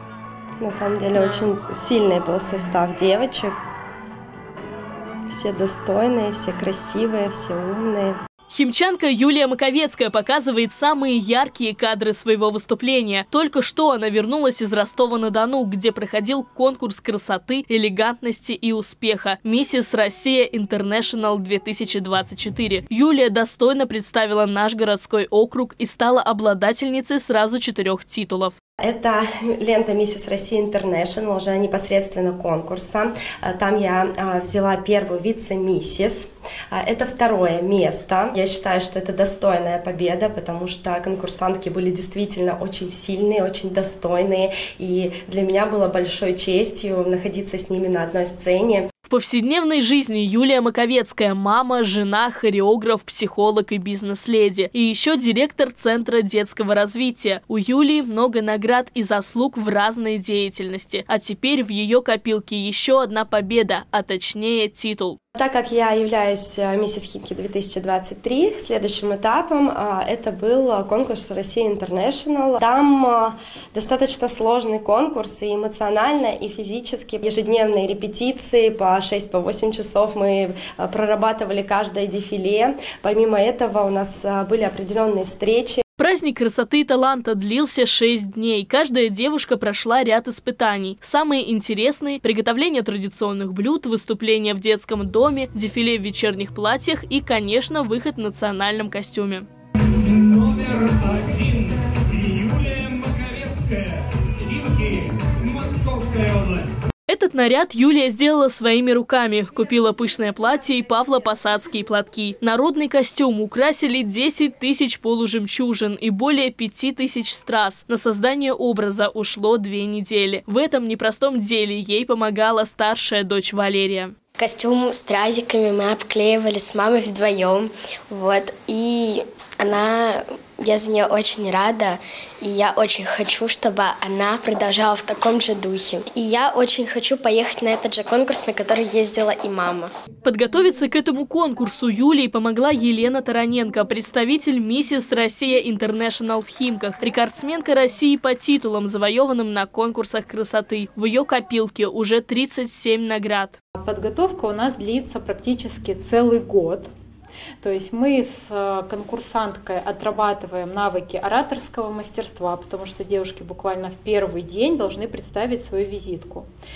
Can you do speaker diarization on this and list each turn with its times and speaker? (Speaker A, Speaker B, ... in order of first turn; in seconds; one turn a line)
Speaker A: 0.6-3.6
Speaker B: 1.1-1.5
Speaker A: 5.3-8.2
Speaker B: 8.5-28.6
Speaker A: 28.8-48.9
Speaker B: 49.1-65.2
Speaker A: 65.3-85.8
Speaker B: 86.0-99.5
Speaker C: 100.4-101.8
Speaker C: 102.3-106.6
Speaker B: 107.1-124.1
Speaker D: 124.4-139.9
Speaker B: 140.2-153.6
Speaker E: 153.8-156.9
Speaker E: 157.6-166.5